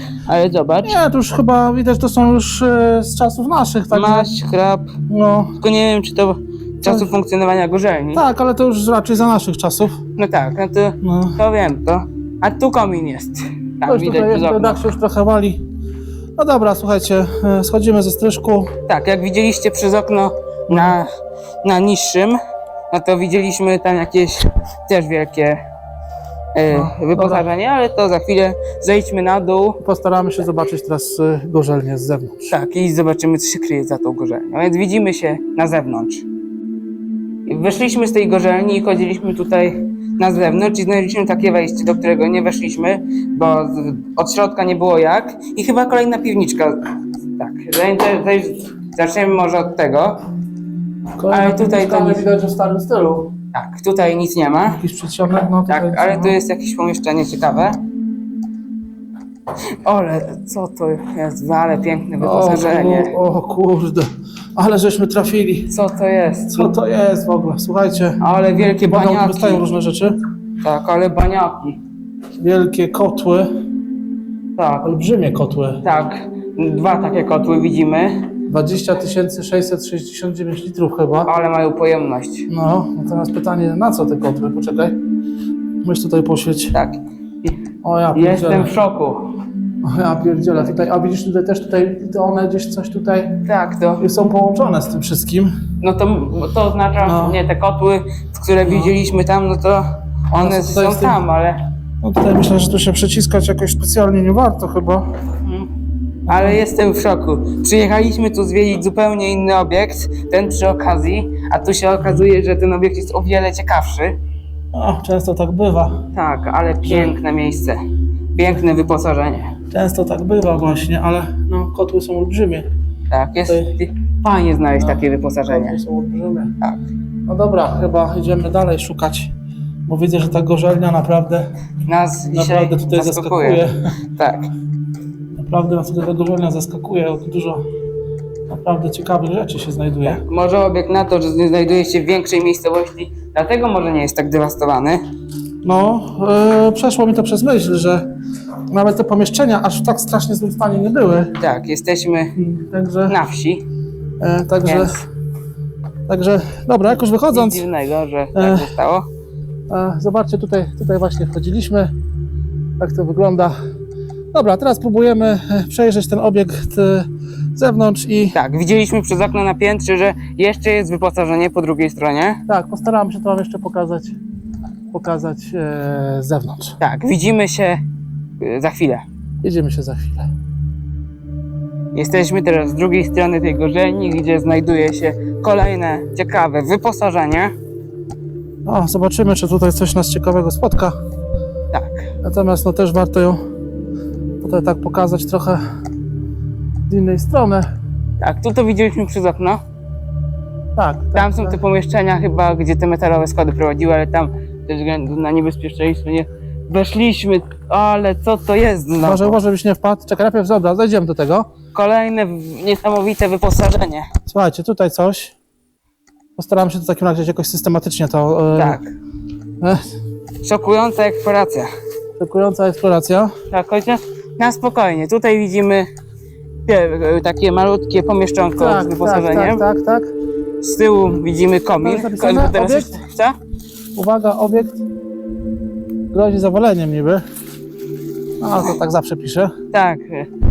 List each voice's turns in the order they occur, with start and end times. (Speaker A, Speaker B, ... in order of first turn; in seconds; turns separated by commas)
Speaker A: 0.3-1.0, Speaker B: 0.8-4.3, Speaker A: 3.9-5.0, Speaker B: 5.1-5.5, Speaker A: 5.6-8.2, Speaker B: 8.1-10.0, Speaker A: 10.2-14.8, Speaker B: 11.0-11.4, Speaker B: 13.8-15.6, Speaker B: 16.4-18.7, Speaker A: 18.9-21.1, Speaker A: 21.6-22.4, Speaker A: 22.9-25.6, Speaker A: 26.6-29.8, Speaker B: 26.7-27.5, Speaker B: 29.8-32.5, Speaker A: 32.5-36.2, Speaker A: 37.5-46.8, Speaker A: 47.4-50.2, Speaker B: 51.2-53.3, Speaker A: 51.3-52.3, Speaker A: 53.5-54.8, Speaker B: 54.7-56.4, Speaker A: 55.7-57.8, Speaker A: 59.8-63.1, Speaker B: 62.2-65.7, Speaker A: 65.7-66.7, Speaker B: 66.5-68.2, Speaker A: 68.2-69.6, Speaker B: 68.8-70.2, Speaker A: 70.6-71.8, Speaker B: 72.4-73.6, Speaker A: 74.6-74.9, Speaker B: 74.8-75.8, Speaker A: 75.8-78.3, Speaker B: 78.5-81.3, Speaker A: 81.2-82.5, Speaker B: 82.5-85.0, Speaker B: 85.8-86.8, Speaker A: 86.7-87.5, Speaker B: 87.8-88.7, Speaker A: 88.1-89.3, Speaker B: 89.8-93.4, Speaker A: 93.5-94.1, Speaker B: 94.0-95.5, Speaker A: 95.8-101.6, Speaker B: 97.0-97.4, Speaker B: 98.7-98.9, Speaker B: 100.3-101.2, Speaker B: 102.0-105.1, Speaker B: 106.3-106.6, Speaker A: 106.3-114.2, Speaker B: 114.7-116.1, Speaker A: 116.1-117.8, Speaker B: 116.9-117.1, Speaker A: 118.3-119.5, Speaker B: 119.7-122.7, Speaker A: 123.1-125.8, Speaker B: 124.8-126.5, Speaker B: 127.3-129.3, Speaker B: 129.9-131.5, Speaker A: 131.8-134.5, Speaker B: 132.3-133.7, Speaker B: 135.3-137.6, Speaker B: 138.5-140.2, Speaker A: 140.1-145.0, Speaker B: 145.6-148.1, Speaker B: 148.7-151.4, Speaker A: 151.4-152.3, Speaker B: 152.4-153.2, Speaker A: 153.1-153.6, Speaker B: 154.2-155.0, Speaker A: 154.7-155.0, Speaker B: 156.1-157.7, Speaker A: 157.3-159.1, Speaker B: 158.3-158.7, Speaker B: 159.7-161.9, Speaker B: 162.8-163.6, Speaker B: 164.3-168.4, Speaker A: 168.3-172.4, Speaker B: 172.5-174.2, Speaker B: 174.9-176.8, Speaker A: 176.8-177.8, Speaker A: 178.4-179.1, Speaker B: 179.4-180.3, Speaker A: 181.9-187.5, Speaker B: 188.7-190.9, Speaker A: 191.7-192.1, Speaker B: 192.2-193.4, Speaker B: 194.4-195.6, Speaker B: 196.9-197.7, Speaker A: 198.2-199.6, Speaker B: 200.8-201.6, Speaker A: 201.2-209.4, Speaker B: 209.0-211.5, Speaker A: 211.7-214.1, Speaker B: 214.3-215.3, Speaker B: 216.4-218.8, Speaker A: 218.5-218.9, Speaker A: 220.4-221.7, Speaker B: 222.2-223.3, Speaker A: 223.5-225.9, Speaker A: 226.7-229.6, Speaker B: 228.6-230.1, Speaker A: 230.6-233.4, Speaker B: 231.8-233.0, Speaker B: 233.9-234.8, Speaker B: 236.1-237.2, Speaker B: 238.4-239.6, Speaker A: 239.7-240.3